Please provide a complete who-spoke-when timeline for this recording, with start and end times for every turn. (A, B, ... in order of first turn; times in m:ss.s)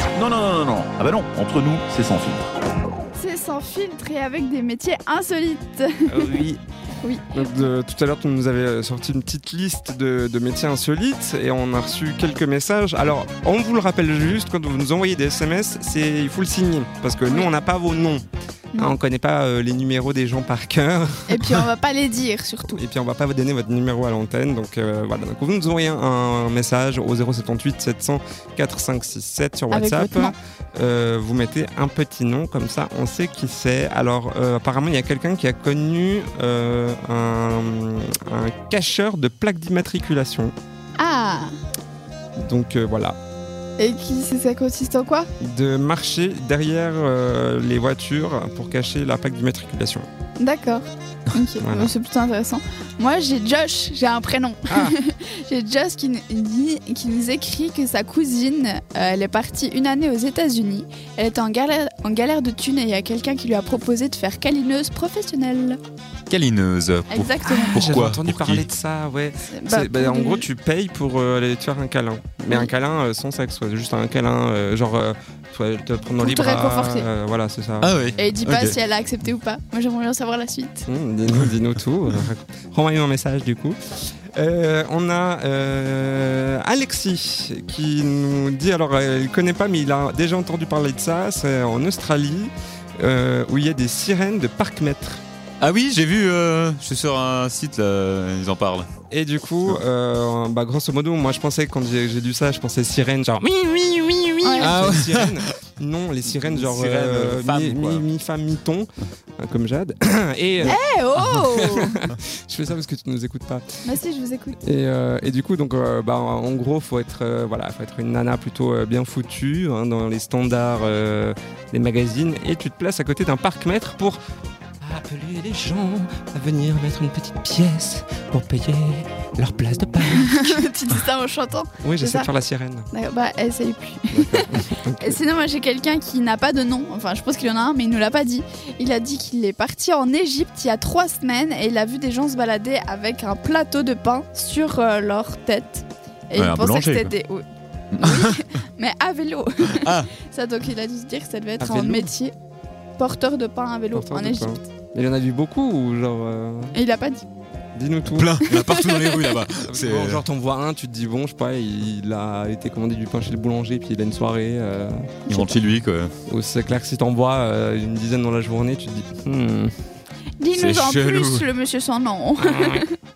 0:00.2-0:02.5 A
0:03.2-0:06.3 B
0:06.1-0:06.6 C
0:07.3-0:18.2 C
0:18.8-0:21.6 C
0:21.3-0:22.8 B
0:22.8-0:40.5 C
0:29.7-0:30.3 B
0:41.0-0:41.5 B
0:42.4-0:43.2 C
0:43.8-0:45.3 B
0:45.4-0:50.1 C
0:50.4-1:05.8 B
0:51.6-0:51.9 C
0:54.7-0:55.0 C
1:06.3-1:08.7 D
1:07.1-1:07.8 B
1:07.7-1:17.9 C
1:09.5-1:10.5 B
1:16.2-1:17.1 B
1:17.8-1:18.8 D
1:18.2-1:20.9 B
1:20.9-1:23.8 C
1:24.4-1:35.2 C
1:35.6-1:38.9 D
1:39.1-1:53.7 C
1:44.4-1:44.8 B
1:44.6-1:45.5 D
1:46.3-1:48.0 D
1:50.6-1:52.0 B
1:53.8-1:54.6 B
1:54.6-2:04.2 C
2:04.8-2:10.6 C
2:10.1-2:12.3 B
2:11.8-2:12.9 C
2:12.9-2:27.4 B
2:14.1-2:15.2 C
2:26.4-2:27.1 D
2:28.0-2:28.4 D
2:28.0-2:32.3 B
2:29.7-2:30.1 D
2:31.6-2:32.1 C
2:33.0-2:34.6 B
2:33.9-2:36.8 C
2:36.7-2:37.3 B
2:37.8-2:38.5 C
2:38.1-2:40.2 D
2:38.5-2:39.3 B
2:39.7-2:45.5 C
2:45.3-2:46.1 D
2:46.3-2:49.7 C
2:50.4-2:52.9 B
2:50.5-2:51.5 D
2:52.4-2:52.8 C